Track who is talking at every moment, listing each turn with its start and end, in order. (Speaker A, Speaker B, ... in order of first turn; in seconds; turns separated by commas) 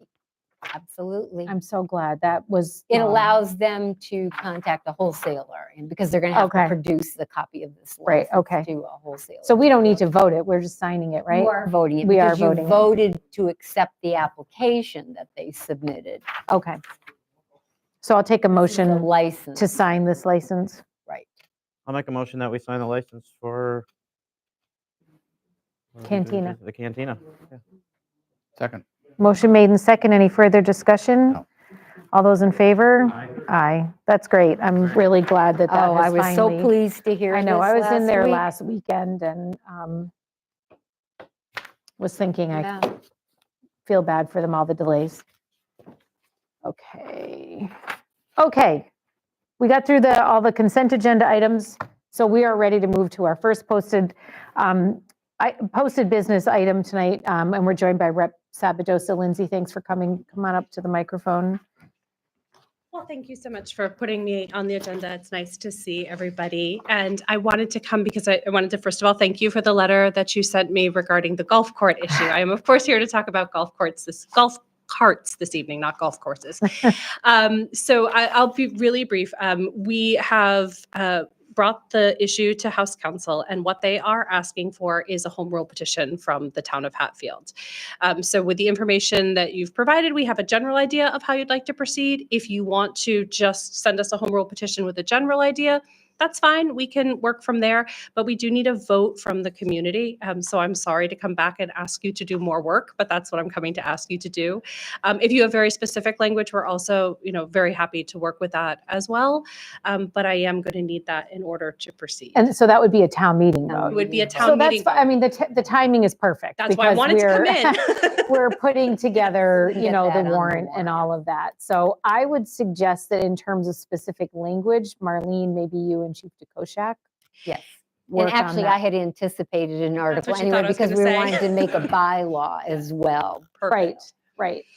Speaker A: 0.7-1.5, Speaker B: 1.5-3.3, Speaker A: 2.9-10.0, Speaker B: 6.3-6.8, Speaker B: 8.1-8.7, Speaker B: 9.4-12.9, Speaker A: 11.3-16.2, Speaker B: 16.5-16.8, Speaker B: 18.0-20.8, Speaker A: 18.7-19.7, Speaker C: 21.9-23.9, Speaker C: 26.0-27.3, Speaker B: 26.0-26.6, Speaker B: 29.2-31.4, Speaker B: 32.1-36.7, Speaker A: 35.7-38.5, Speaker B: 37.3-40.1, Speaker B: 42.0-42.9, Speaker A: 42.6-42.9, Speaker B: 43.9-45.2, Speaker B: 46.6-47.7, Speaker B: 48.4-48.9, Speaker B: 49.6-61.6, Speaker D: 62.9-112.5, Speaker B: 112.3-127.0, Speaker A: 113.7-114.5, Speaker D: 113.9-115.1, Speaker D: 116.6-118.4, Speaker A: 119.7-120.9, Speaker A: 127.5-133.5, Speaker B: 128.1-128.8, Speaker D: 130.1-131.7, Speaker D: 133.6-134.0, Speaker B: 133.7-134.7